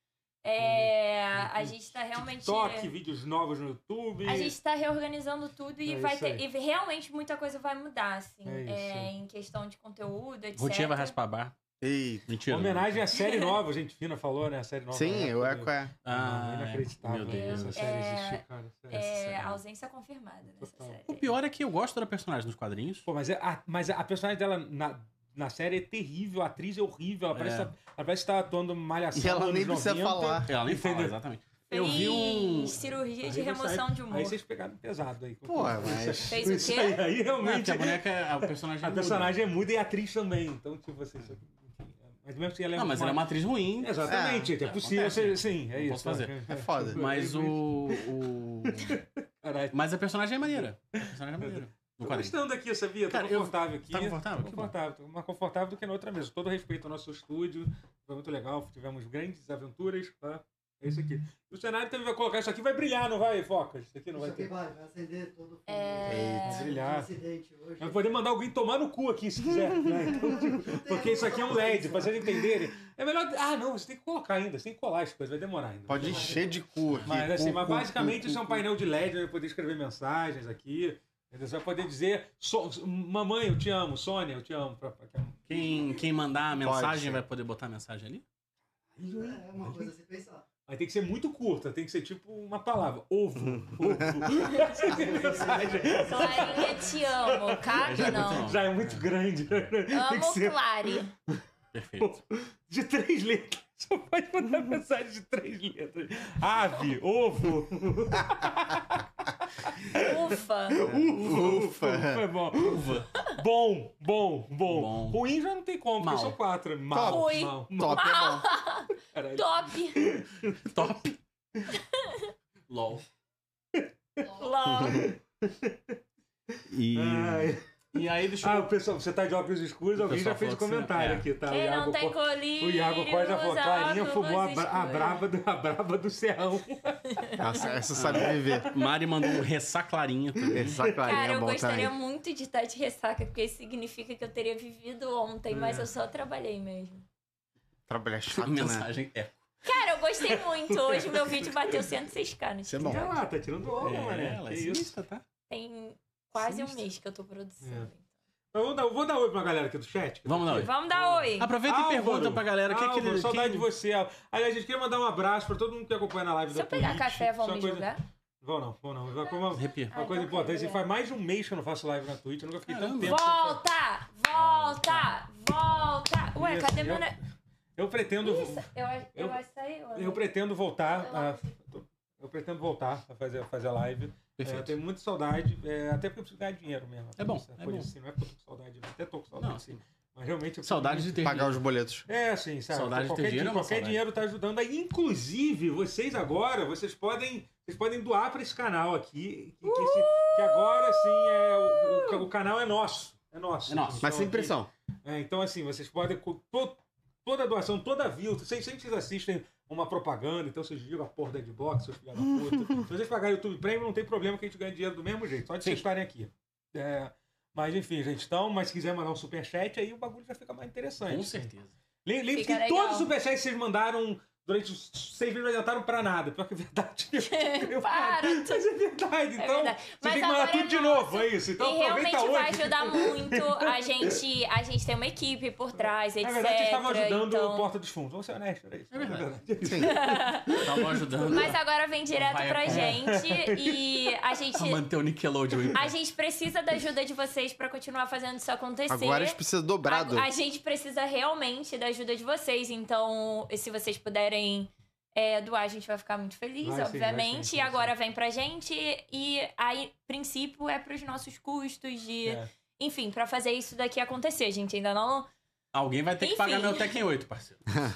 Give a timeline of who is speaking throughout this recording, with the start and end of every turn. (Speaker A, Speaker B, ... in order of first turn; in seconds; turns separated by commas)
Speaker A: 0.4-2.9, Speaker B: 0.6-1.7, Speaker B: 2.3-4.5, Speaker A: 4.2-11.2, Speaker B: 5.9-6.5, Speaker B: 8.4-9.1, Speaker C: 10.6-11.5, Speaker D: 11.8-12.3, Speaker C: 12.3-13.1, Speaker B: 12.5-19.2, Speaker A: 13.2-13.5, Speaker D: 14.9-15.9, Speaker C: 16.0-17.8, Speaker A: 17.3-21.3, Speaker C: 19.2-19.6, Speaker B: 20.6-21.0, Speaker C: 21.1-23.1, Speaker B: 23.1-31.2, Speaker C: 27.3-27.7, Speaker D: 29.1-30.5, Speaker C: 30.5-32.8, Speaker A: 31.7-34.4, Speaker B: 31.7-48.0, Speaker D: 35.5-36.7, Speaker A: 36.3-37.0, Speaker C: 37.4-39.4, Speaker C: 42.7-46.3, Speaker D: 44.0-44.5, Speaker D: 46.5-47.0, Speaker C: 46.9-49.0, Speaker B: 48.8-49.8, Speaker C: 49.7-52.4, Speaker B: 50.4-64.5, Speaker C: 53.1-54.7, Speaker E: 64.1-68.0, Speaker A: 65.7-66.7, Speaker D: 66.1-66.6, Speaker B: 66.4-67.1, Speaker B: 67.8-76.5, Speaker E: 70.0-72.4, Speaker D: 75.9-78.7, Speaker E: 76.0-76.5, Speaker C: 76.9-77.2, Speaker B: 77.1-85.4, Speaker C: 85.5-88.2, Speaker D: 86.6-87.2, Speaker E: 89.0-90.5, Speaker B: 89.0-89.9, Speaker B: 90.7-101.4, Speaker D: 93.5-94.4, Speaker E: 94.4-96.9, Speaker A: 96.0-98.5, Speaker C: 97.8-99.0, Speaker A: 99.9-101.1, Speaker C: 101.7-102.1, Speaker B: 102.0-109.0, Speaker B: 109.6-118.2, Speaker A: 109.9-110.8, Speaker D: 110.8-112.3, Speaker C: 112.6-113.1, Speaker C: 114.7-115.2, Speaker C: 116.0-116.4, Speaker D: 116.9-118.5, Speaker A: 117.0-120.1, Speaker B: 119.1-120.8, Speaker C: 120.6-121.2, Speaker A: 121.7-122.3, Speaker C: 122.7-123.0, Speaker B: 123.8-124.3, Speaker A: 124.4-125.1, Speaker D: 124.7-125.1, Speaker B: 124.8-126.0, Speaker C: 126.7-128.7, Speaker B: 126.9-127.6, Speaker B: 128.4-137.2, Speaker C: 130.0-131.3, Speaker A: 131.5-135.2, Speaker A: 137.1-137.7, Speaker D: 137.4-138.7, Speaker C: 137.9-140.9, Speaker B: 138.1-138.9, Speaker B: 140.5-141.1, Speaker D: 140.5-141.9, Speaker A: 141.0-147.0, Speaker B: 145.5-145.9, Speaker D: 147.9-148.9, Speaker C: 148.3-149.4, Speaker A: 149.6-153.1, Speaker B: 150.6-151.8, Speaker D: 152.7-153.2, Speaker B: 152.8-154.9, Speaker C: 153.7-155.2, Speaker A: 155.5-158.0, Speaker B: 156.4-156.8, Speaker B: 157.6-157.9, Speaker B: 158.5-167.9, Speaker C: 160.3-160.7, Speaker A: 160.5-161.5, Speaker C: 161.4-163.7, Speaker A: 166.5-168.0, Speaker B: 168.4-173.6, Speaker C: 169.5-169.9, Speaker A: 169.9-170.8, Speaker C: 172.7-173.2, Speaker A: 173.1-177.2, Speaker C: 174.3-175.1, Speaker B: 176.3-177.1, Speaker B: 177.8-179.4, Speaker A: 178.2-180.3, Speaker B: 179.9-191.4, Speaker A: 180.9-181.4, Speaker C: 184.4-184.8, Speaker C: 187.2-187.9, Speaker C: 189.4-189.8, Speaker C: 190.6-191.6, Speaker D: 191.2-192.1, Speaker B: 192.1-221.5, Speaker C: 192.7-194.0, Speaker A: 199.6-202.2, Speaker C: 203.7-204.0, Speaker D: 204.0-204.7, Speaker C: 221.1-221.7, Speaker B: 222.0-234.1, Speaker A: 222.3-223.1, Speaker A: 227.3-228.7, Speaker A: 229.4-237.7, Speaker B: 236.2-241.5, Speaker C: 238.9-239.3, Speaker D: 239.1-240.0, Speaker A: 239.8-240.6, Speaker C: 240.5-241.6, Speaker A: 241.3-244.8, Speaker C: 242.1-243.0, Speaker B: 242.7-244.0, Speaker C: 244.6-245.9, Speaker A: 245.7-265.3, Speaker D: 248.9-250.3, Speaker B: 256.6-257.9, Speaker C: 265.7-267.8, Speaker A: 266.2-267.0